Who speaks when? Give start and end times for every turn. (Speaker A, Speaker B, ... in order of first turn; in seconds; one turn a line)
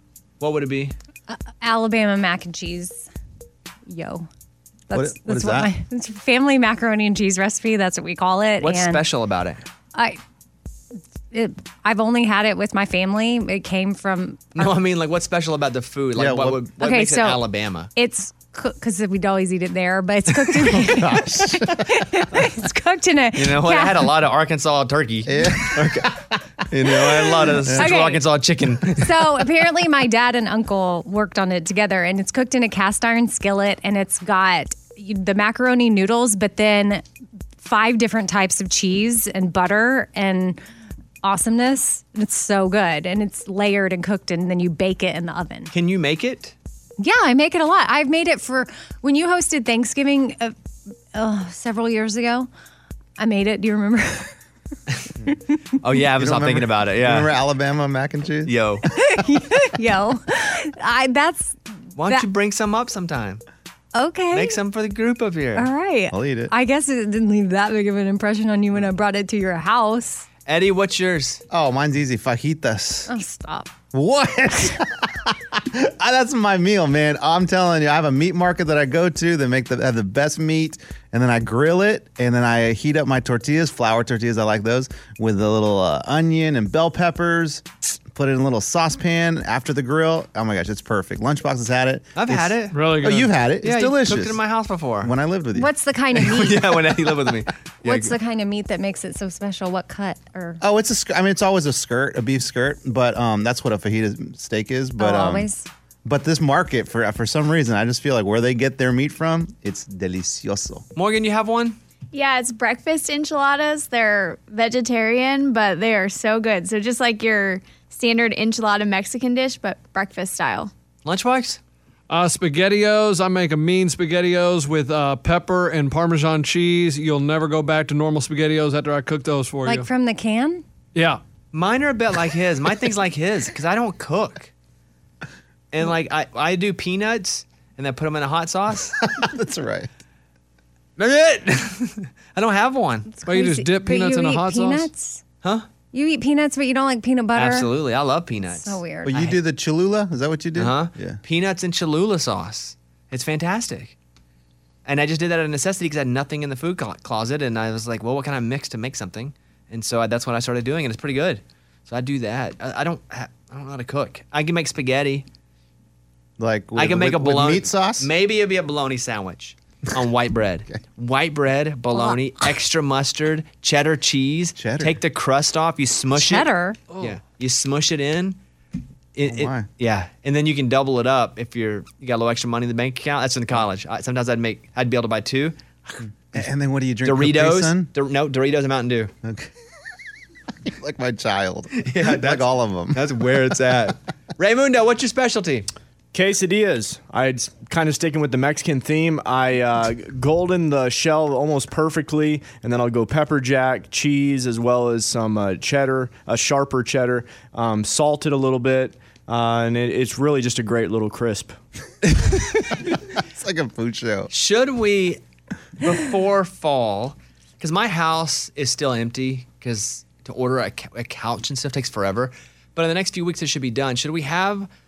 Speaker A: 0.4-0.9
Speaker B: 1.3-3.1
Speaker B: 3.9-4.3
Speaker B: 4.9-9.0
Speaker C: 4.9-5.7
Speaker A: 8.6-9.6
Speaker B: 11.3-14.7
Speaker A: 14.5-17.9
Speaker C: 16.1-16.6
Speaker B: 16.8-24.0
Speaker C: 20.6-22.1
Speaker A: 23.3-26.2
Speaker C: 25.2-26.1
Speaker C: 26.7-27.9
Speaker A: 26.7-29.4
Speaker B: 27.7-28.2
Speaker B: 29.0-37.0
Speaker B: 37.6-40.6
Speaker B: 41.2-45.7
Speaker A: 45.7-46.5
Speaker B: 47.0-50.5
Speaker B: 51.1-52.5
Speaker B: 53.2-54.3
Speaker A: 55.8-57.3
Speaker C: 56.2-58.5
Speaker A: 58.5-58.9
Speaker B: 58.9-61.6
Speaker A: 62.0-63.4
Speaker B: 63.9-64.6
Speaker A: 64.3-65.7
Speaker B: 65.5-70.3
Speaker C: 66.1-66.5
Speaker A: 70.5-71.4
Speaker C: 71.5-73.1
Speaker B: 73.1-73.7
Speaker C: 73.9-94.4
Speaker A: 92.1-92.9
Speaker D: 92.7-93.3
Speaker A: 93.6-95.1
Speaker C: 95.0-95.7
Speaker B: 95.5-96.8
Speaker A: 96.2-98.1
Speaker B: 97.8-100.6
Speaker C: 100.6-105.5
Speaker B: 105.0-105.7
Speaker C: 106.0-110.8
Speaker A: 110.9-111.8
Speaker E: 112.1-120.7
Speaker A: 121.0-121.6
Speaker D: 122.1-129.9
Speaker B: 129.6-130.6
Speaker D: 130.9-131.2
Speaker A: 131.5-134.5
Speaker A: 135.7-139.0
Speaker C: 139.0-139.9
Speaker A: 141.0-143.2
Speaker B: 143.2-145.2
Speaker D: 143.2-144.9
Speaker B: 145.9-147.7
Speaker A: 147.3-149.4
Speaker B: 148.5-149.1
Speaker C: 149.1-151.2
Speaker A: 150.6-153.9
Speaker A: 154.8-165.2
Speaker C: 166.4-168.1
Speaker A: 166.8-178.4
Speaker C: 174.6-175.0
Speaker B: 176.1-176.8
Speaker A: 179.1-186.0
Speaker C: 179.3-179.7
Speaker C: 186.3-187.9
Speaker A: 187.0-189.1
Speaker C: 189.2-189.5
Speaker C: 190.6-193.1
Speaker A: 191.8-195.7
Speaker F: 196.1-211.6
Speaker C: 213.1-214.3
Speaker A: 214.3-215.2
Speaker A: 215.8-224.7